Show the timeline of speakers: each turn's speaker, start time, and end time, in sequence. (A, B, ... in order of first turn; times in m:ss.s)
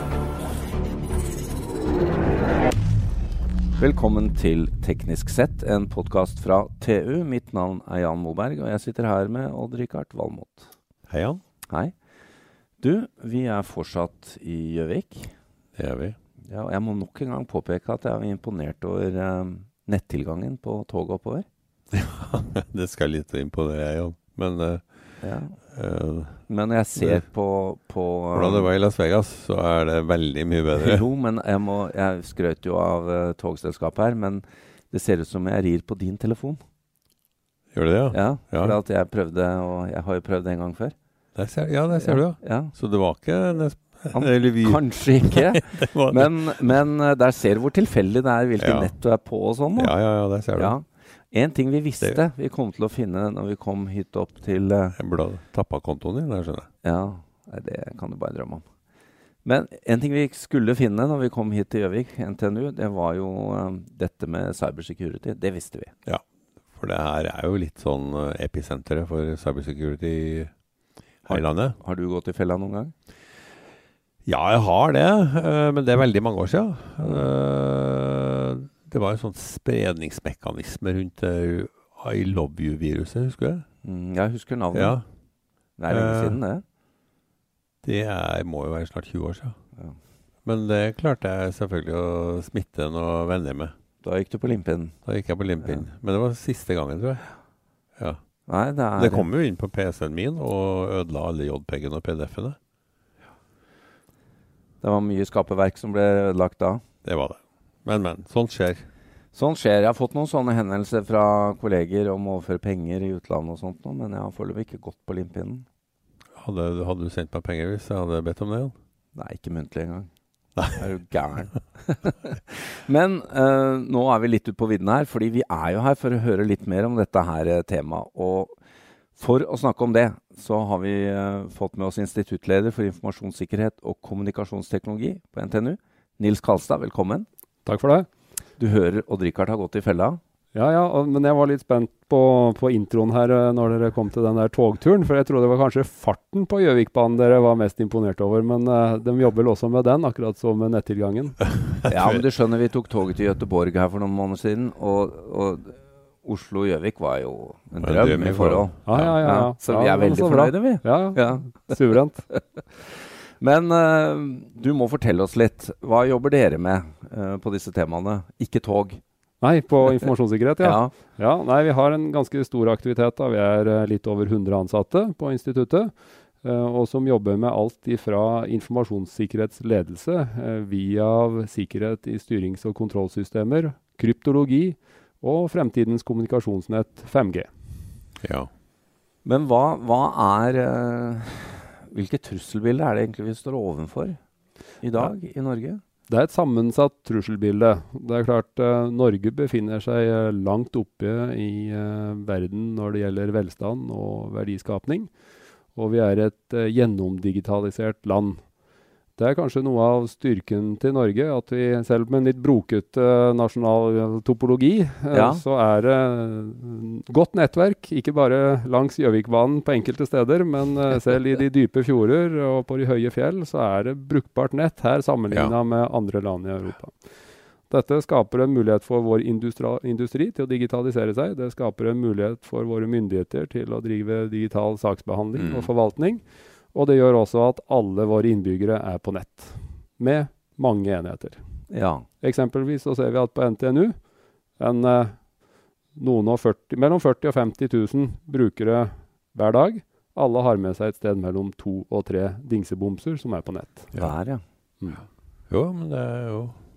0:03.8-0:10.7 A
0:11.1-0:11.4 B
0:11.7-0:11.9 A
0:12.8-0:15.3 A
0:15.8-0:16.2 B
0:16.5-0:21.4 A
0:21.9-0:25.2 B
0:25.2-0:25.6 A
0:25.7-0:27.2 B
0:26.5-0:28.7 A
0:28.3-0:31.0 B
0:30.7-0:36.6 A
0:37.7-0:38.8 B
0:38.1-0:40.9 A
0:41.4-0:46.6 B
0:41.9-0:42.7 A
0:44.1-0:55.0 A
0:48.6-0:49.0 B
0:49.8-0:50.8 B
0:55.0-0:56.7 B
0:56.8-0:58.6 A
0:59.4-1:05.9 A
1:06.0-1:10.5 B
1:11.2-1:12.9 A
1:11.3-1:11.8 B
1:14.2-1:23.6 B
1:17.0-1:17.3 A
1:23.8-1:25.0 A
1:24.7-1:25.0 B
1:25.8-1:26.6 A
1:25.9-1:26.4 B
1:27.8-1:29.6 B
1:30.4-1:33.7 B
1:34.0-1:35.0 A
1:35.0-1:37.2 B
1:35.6-1:35.9 A
1:38.5-1:39.3 A
1:39.0-1:42.6 B
1:44.8-1:46.8 A
1:47.0-1:48.8 B
1:49.3-1:55.6 A
1:56.4-1:58.7 B
1:59.1-2:00.1 A
2:00.6-2:08.6 A
2:09.2-2:17.2 A
2:17.6-2:18.1 C
2:18.6-2:20.2 A
2:20.5-2:31.4 C
2:31.9-2:41.8 A
2:37.8-2:39.1 B
2:38.8-2:42.3 C
2:42.8-2:49.0 A
2:49.4-3:07.5 C
2:50.6-2:50.9 A
3:08.2-3:08.5 B
3:09.2-3:14.2 A
3:14.8-3:15.8 A
3:16.1-3:25.1 C
3:25.8-3:28.4 C
3:29.2-3:47.0 C
3:35.1-3:35.4 A
3:47.7-4:01.4 C
3:55.4-3:55.7 B
4:01.7-4:02.0 A
4:02.2-4:03.9 C
4:04.6-4:05.2 C
4:05.9-4:13.9 C
4:14.0-4:14.4 A
4:15.5-4:16.6 B